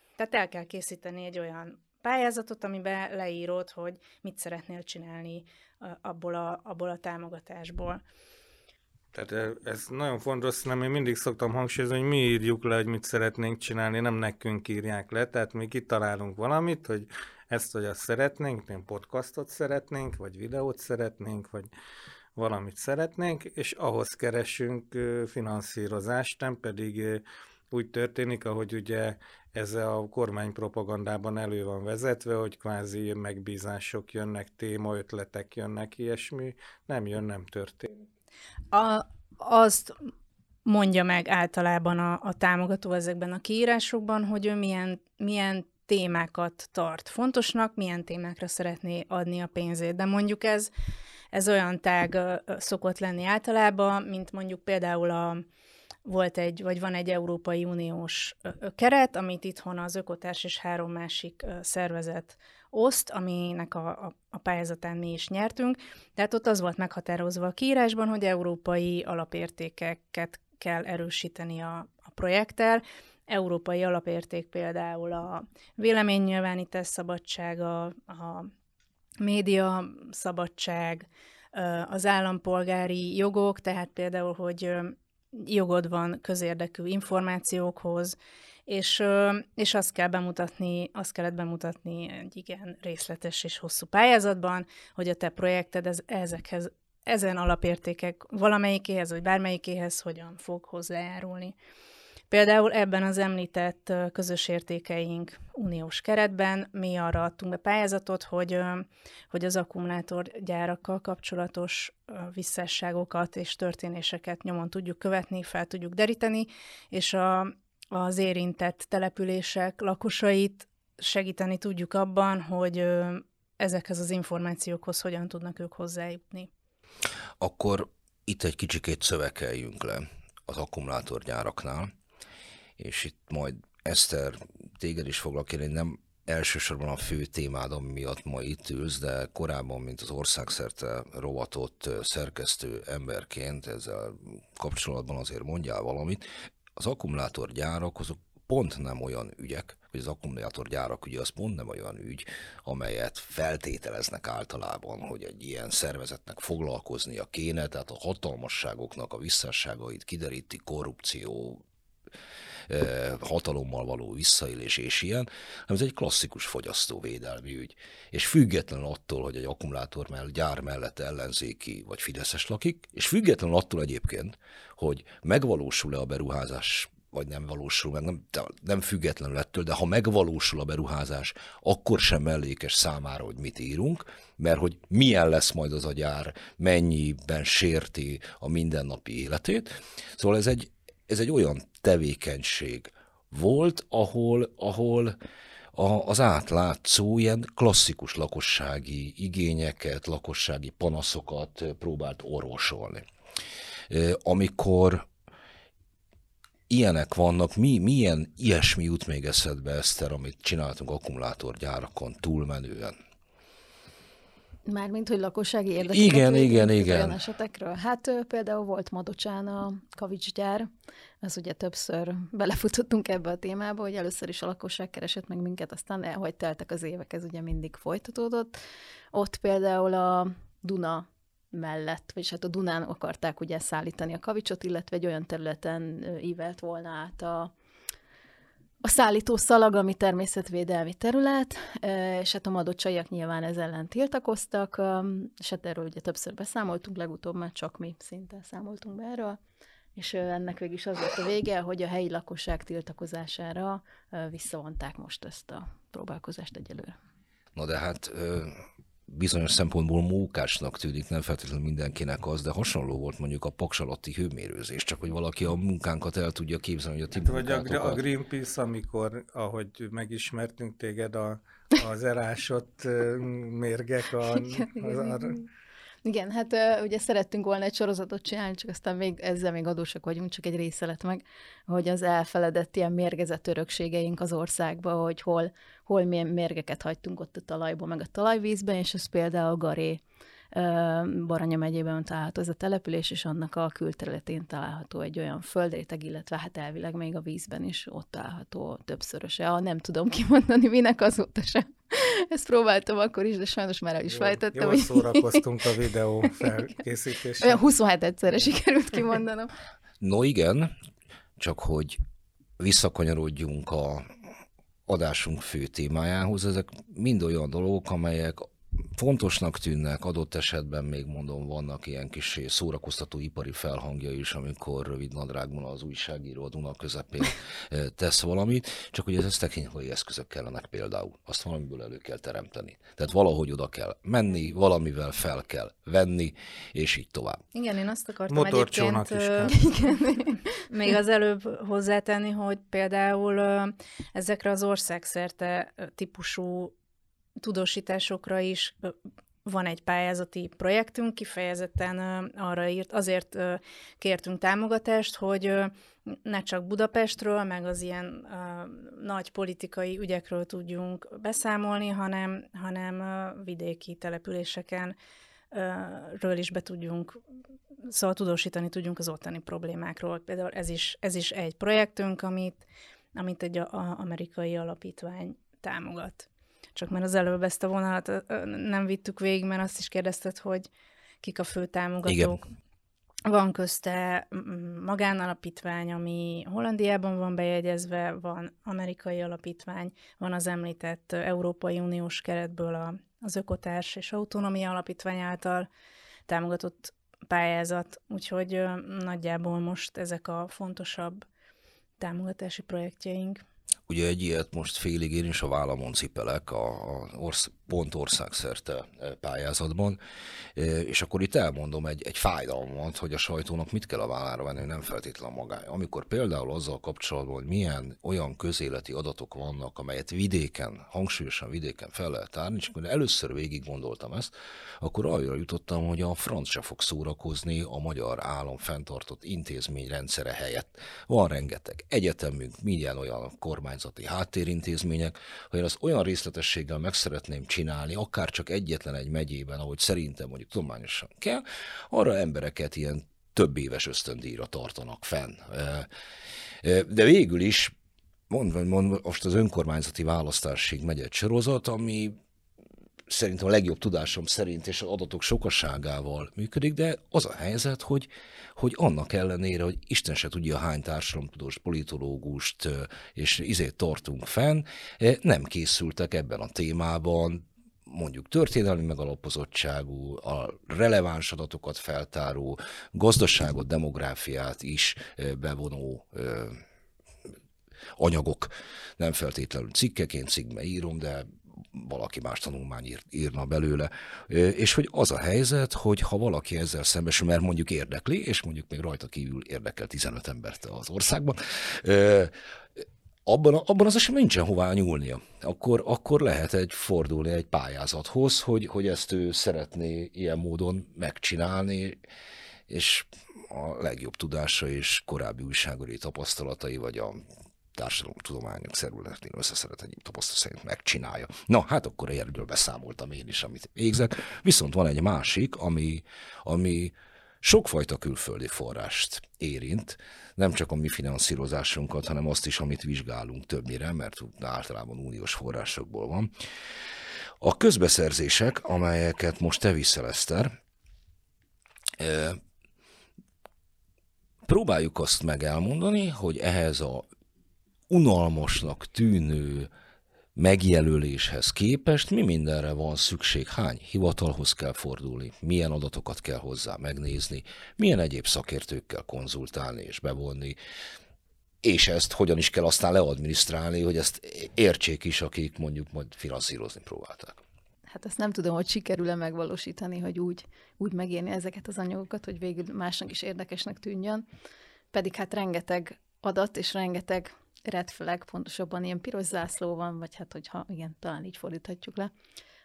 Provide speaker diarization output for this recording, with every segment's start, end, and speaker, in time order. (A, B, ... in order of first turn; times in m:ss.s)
0:00.2-0:08.0 A
0:09.1-0:21.7 B
0:22.4-0:38.0 B
0:38.7-0:40.1 A
0:40.6-0:50.7 A
0:51.3-0:55.4 A
0:56.0-1:18.5 A
1:19.2-1:28.2 A
1:28.7-1:41.6 A
1:42.3-2:06.5 A
2:07.4-2:11.9 C
2:12.8-2:26.2 C
2:26.8-2:41.6 C
2:42.7-3:15.2 C
3:15.7-3:23.0 C
3:23.9-3:25.1 C
3:26.7-3:33.0 C
3:34.7-3:40.7 D
3:35.8-3:37.2 C
3:41.2-3:48.6 D
3:49.1-3:57.5 D
3:58.8-4:09.4 D
4:10.0-4:17.0 D
4:17.6-4:28.0 C
4:27.2-4:35.4 B
4:34.5-4:35.4 D
4:36.0-4:50.0 D
4:50.5-5:05.4 D
5:04.1-5:07.6 B
5:07.4-5:09.5 D
5:10.0-5:10.7 C
5:11.4-5:12.0 C
5:12.6-5:14.1 C
5:14.9-5:37.4 C
5:37.6-5:39.6 A
5:38.3-5:39.7 B
5:39.5-5:40.5 D
5:40.7-5:46.7 A
5:47.4-5:48.9 A
5:49.4-6:05.0 A
6:05.5-6:07.2 A
6:07.9-6:12.6 A
6:13.2-6:20.7 A
6:21.2-6:22.5 A
6:22.0-6:22.4 C
6:23.3-6:35.7 A
6:36.3-6:41.2 A
6:42.0-6:43.4 A
6:43.9-6:50.0 C
6:50.5-7:25.9 C
7:26.6-7:27.7 C
7:28.3-7:32.2 C
7:33.1-7:56.6 C
7:58.0-8:22.0 C
8:22.7-8:27.2 C
8:27.7-8:46.3 C
8:47.4-8:50.5 C
8:52.0-8:52.4 C
8:54.5-8:57.0 C
8:57.9-8:59.7 C
9:00.4-9:10.6 C
9:11.6-9:17.4 C
9:17.9-9:24.2 D
9:24.9-9:32.1 D